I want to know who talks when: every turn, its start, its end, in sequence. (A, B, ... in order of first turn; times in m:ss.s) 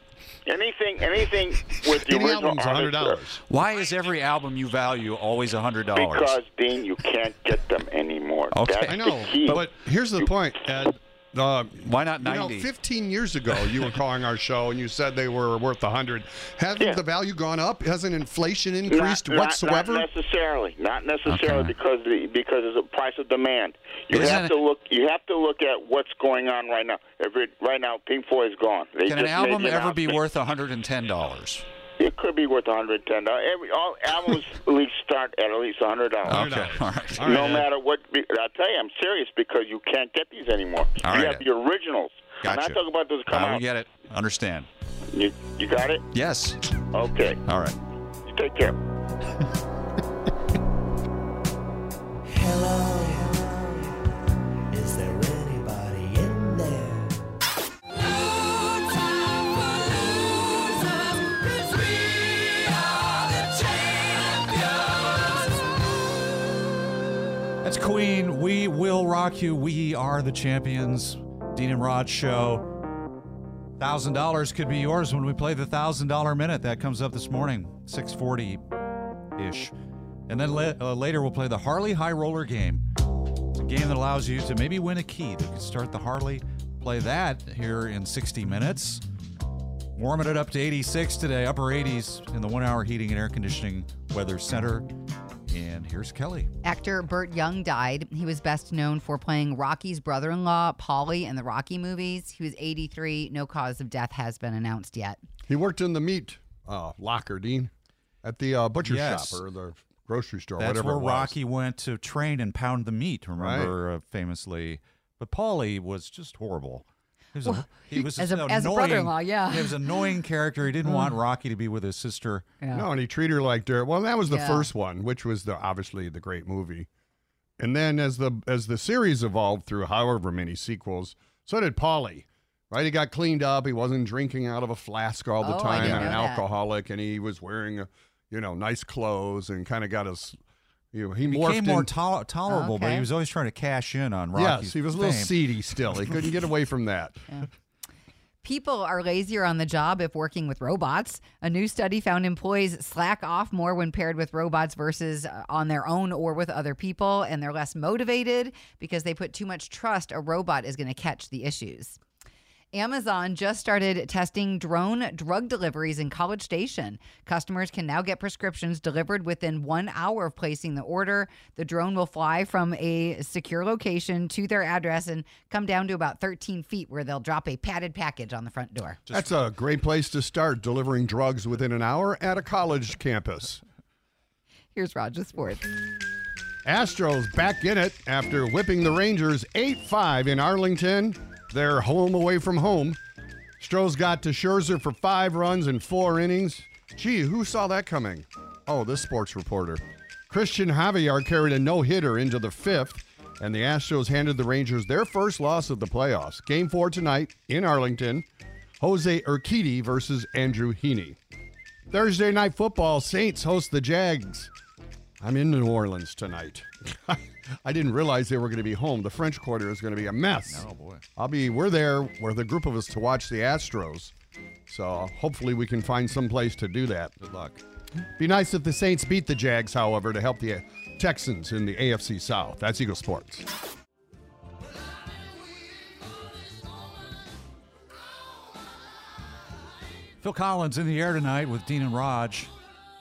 0:00.5-0:03.2 A
0:01.9-0:03.4 B
0:03.5-0:06.4 C
0:05.9-0:09.6 A
0:08.5-0:09.6 C
0:08.9-0:20.1 B
0:11.8-0:12.7 C
0:18.9-0:30.2 A
0:21.2-0:21.7 C
0:24.1-0:24.6 C
0:29.0-0:31.6 C
0:32.0-0:36.5 A
0:36.2-0:37.5 C
0:36.3-0:37.7 B
0:37.2-0:43.6 A
0:41.0-0:41.4 C
0:42.4-0:44.7 C
0:45.1-0:46.1 A
0:46.1-0:46.6 C
0:46.9-0:47.4 A
0:47.4-0:47.8 C
0:48.3-0:48.8 A
0:52.7-0:53.6 D
0:54.8-0:56.7 D
1:01.4-1:02.1 D
1:03.4-1:04.5 D
1:07.6-1:12.7 C
1:13.8-1:18.6 C
1:19.4-1:19.7 C
1:20.3-1:22.8 C
1:23.5-1:29.0 C
1:30.0-1:34.9 C
1:35.5-1:36.5 C
1:36.6-1:45.2 E
1:45.5-1:47.7 B
1:48.2-1:51.3 B
1:48.8-1:49.4 C
1:50.6-2:02.5 C
1:53.4-1:53.7 B
1:57.4-2:00.1 E
2:00.8-2:01.2 E
2:02.6-2:02.9 E
2:02.7-2:06.9 B
2:04.3-2:04.7 E
2:07.6-2:20.4 B
2:15.4-2:16.4 E
2:15.7-2:16.2 C
2:20.9-2:21.9 B
2:21.3-2:25.3 C
2:22.5-2:23.1 E
2:24.3-2:27.2 B
2:28.4-2:42.0 E
2:42.7-2:59.0 E
2:59.1-3:03.6 B
3:04.7-3:05.7 E
3:06.6-3:13.0 B
3:13.6-3:28.2 B
3:28.8-3:31.2 B
3:31.9-3:34.5 B
3:35.2-3:44.1 B
3:40.5-3:41.0 C
3:44.7-3:47.1 B
3:47.2-3:47.6 C
3:48.2-3:53.4 B
4:00.2-4:02.5 C